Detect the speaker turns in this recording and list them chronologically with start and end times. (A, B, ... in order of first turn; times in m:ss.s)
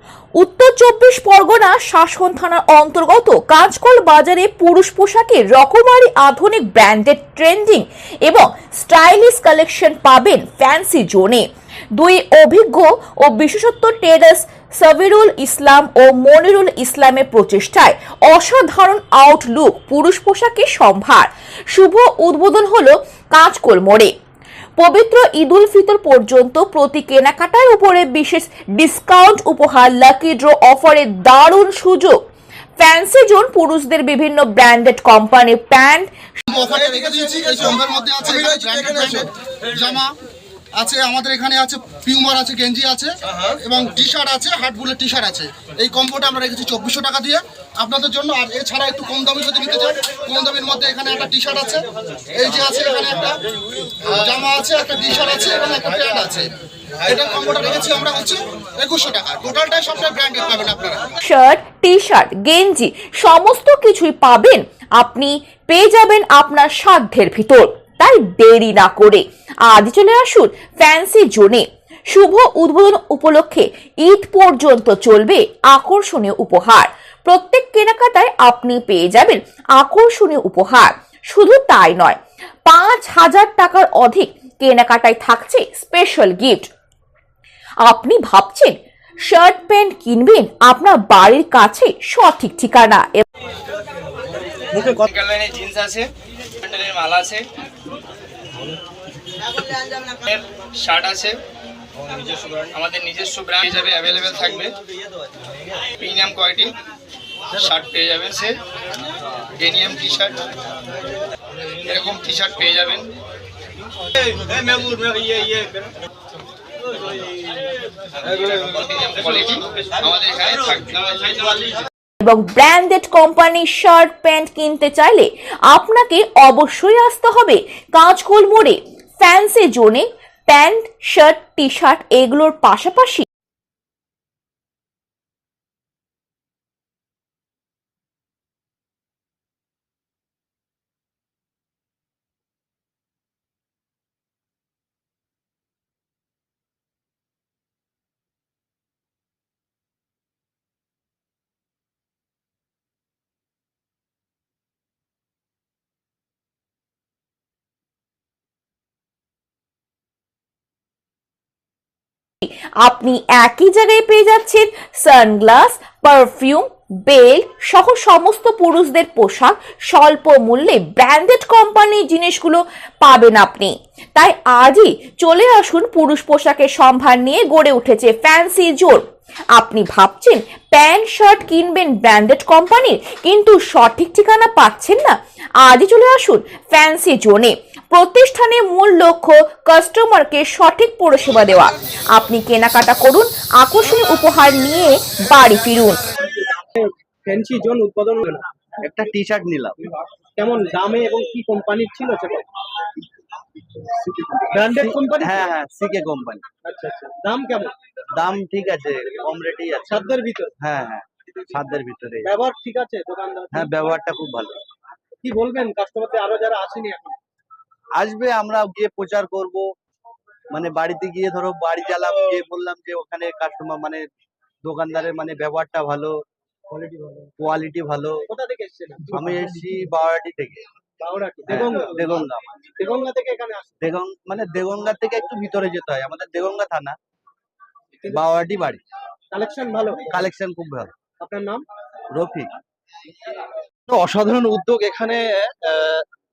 0:00.4-0:11.4 A
0:12.0-0:24.1 A
0:24.8-0:32.2 A
0:32.8-0:36.1 A
0:36.5-0:40.1 B
0:40.8-0:53.4 B
0:54.1-0:56.5 B
0:57.0-1:01.1 B
1:01.2-1:26.7 A
1:27.8-1:28.7 A
1:29.3-1:33.2 A
1:34.8-1:36.1 C
1:36.7-1:37.4 C
1:40.3-1:41.3 C
1:42.7-1:44.7 C
1:46.0-1:46.7 C
1:47.6-1:48.5 C
1:49.6-1:50.3 C
1:51.9-1:53.0 C
1:55.1-1:55.6 C
1:58.8-2:01.7 C
2:02.2-2:13.2 A
2:42.4-2:59.0 A
2:59.5-3:16.0 A
3:16.6-3:18.5 D
3:18.8-3:19.8 E
3:20.4-3:22.5 D
3:24.3-3:25.5 D
3:24.7-3:26.5 E
3:26.6-3:27.8 D
3:28.2-3:30.1 E
3:29.9-3:30.5 D
3:30.6-3:32.3 E
3:32.2-3:34.0 D
3:33.5-3:34.6 E
3:35.2-3:37.2 D
3:38.0-3:39.6 E
3:40.5-3:44.0 E
3:44.6-3:46.1 E
3:47.4-3:48.2 E
3:48.3-3:49.6 D
3:49.1-3:50.6 E
3:51.0-3:53.8 D
3:51.5-3:52.5 E
3:53.8-3:57.0 E
3:58.1-3:58.8 E
3:59.3-4:00.3 D
4:00.1-4:00.9 E
4:01.2-4:01.6 D
4:02.1-4:02.5 E
4:03.9-4:06.0 F